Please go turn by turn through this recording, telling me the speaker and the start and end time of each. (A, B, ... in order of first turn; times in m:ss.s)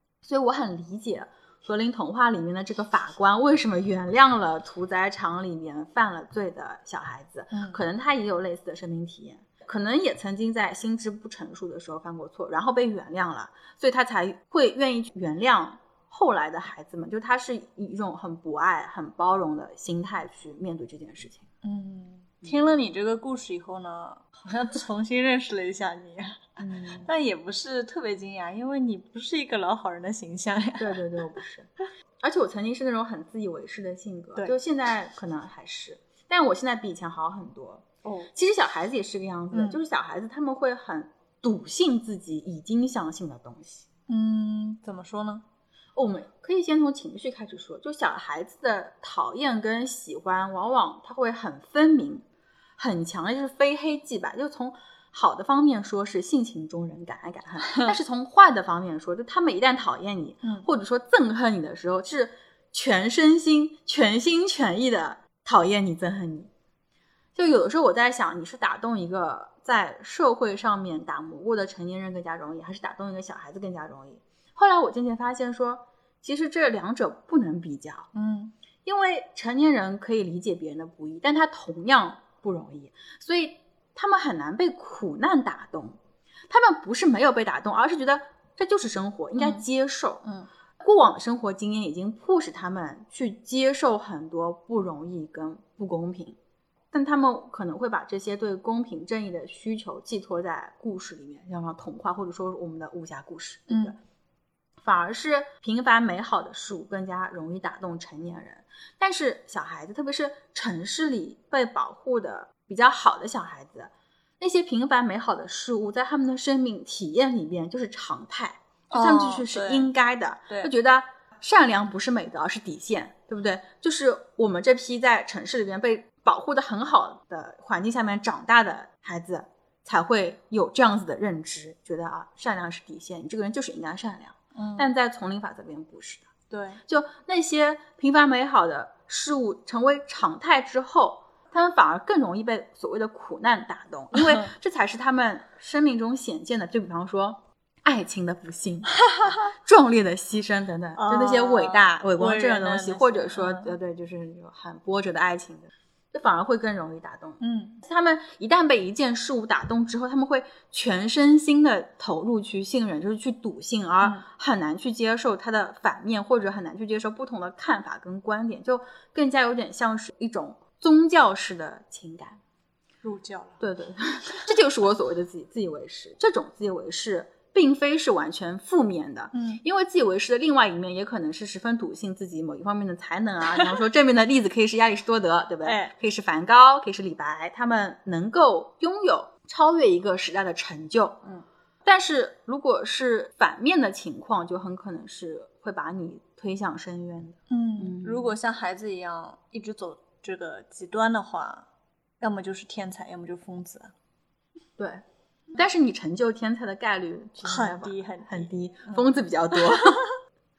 0:00.2-0:21.4 A
0:07.5-0:07.8 B
0:21.6-0:31.0 B
0:26.6-0:27.1 A
0:30.8-0:31.7 A
0:32.2-0:43.9 A
0:38.0-0:38.3 B
0:39.5-0:39.8 B
0:44.1-0:45.4 B
0:46.0-0:52.2 A
0:52.8-1:06.5 A
1:07.3-1:18.1 A
1:18.1-1:18.5 B
1:18.8-1:26.0 A
1:26.5-1:30.2 A
1:29.4-1:29.6 B
1:30.8-1:36.4 A
1:36.9-1:44.0 A
1:43.7-1:43.9 B
1:44.8-2:16.3 A
1:58.9-1:59.9 B
2:14.5-2:14.9 B
2:16.5-2:16.8 B
2:16.8-2:52.4 A
2:24.1-2:24.5 B
2:31.0-2:33.7 B
2:37.4-2:37.8 B
2:53.0-2:53.6 B
2:53.6-3:18.4 A
2:59.3-2:59.6 B
3:05.6-3:05.9 B
3:17.5-3:21.7 B
3:22.2-3:23.9 B
3:25.5-3:30.0 A
3:27.4-3:30.0 B